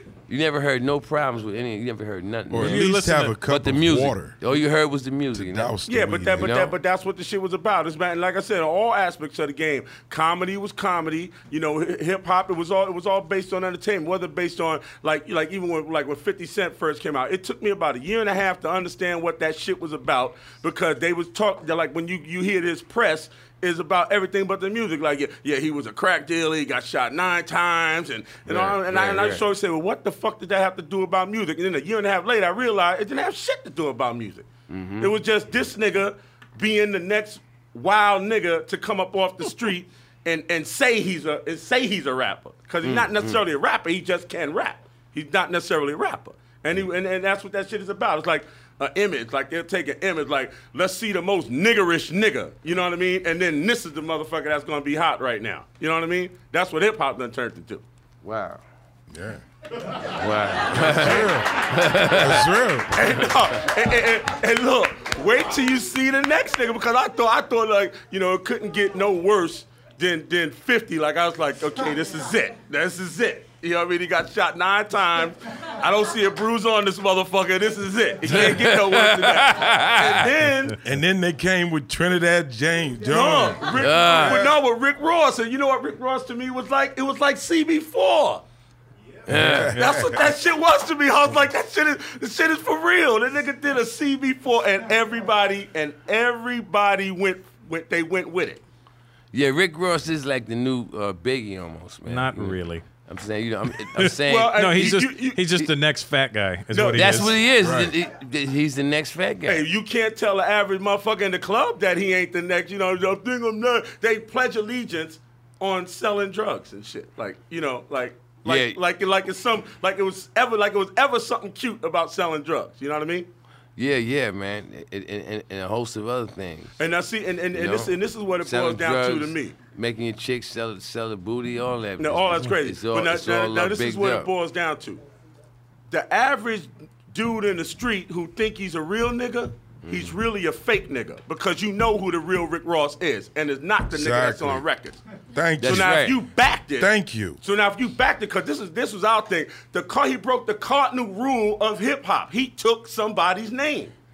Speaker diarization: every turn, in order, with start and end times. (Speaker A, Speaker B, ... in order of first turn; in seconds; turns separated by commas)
Speaker A: 0.3-2.9, Speaker B: 2.5-4.4, Speaker C: 2.6-3.4, Speaker A: 3.5-5.8, Speaker B: 5.3-6.5, Speaker D: 5.9-34.5, Speaker A: 6.4-6.7, Speaker A: 28.4-29.4, Speaker A: 34.7-35.1, Speaker D: 35.0-57.9, Speaker A: 42.8-43.4, Speaker A: 58.2-58.6, Speaker B: 59.1-59.4, Speaker A: 60.1-62.5, Speaker B: 60.7-63.1, Speaker D: 62.9-80.8, Speaker A: 78.2-80.3, Speaker B: 80.8-84.0, Speaker D: 83.0-88.4, Speaker A: 83.7-84.5, Speaker A: 89.3-89.7, Speaker B: 89.3-90.3, Speaker D: 89.7-98.6, Speaker A: 99.3-104.8, Speaker C: 102.1-102.8, Speaker C: 103.8-107.4, Speaker D: 104.2-105.5, Speaker D: 106.7-107.4, Speaker A: 106.9-109.6, Speaker B: 107.6-107.9, Speaker D: 109.4-123.3, Speaker A: 118.4-118.8, Speaker A: 123.8-126.8, Speaker D: 126.8-129.6, Speaker A: 127.5-134.3, Speaker D: 132.0-135.0, Speaker D: 135.9-145.0, Speaker A: 139.8-140.2, Speaker B: 143.9-144.6, Speaker B: 145.3-146.0, Speaker A: 145.6-146.2, Speaker D: 145.6-153.9, Speaker B: 146.8-147.4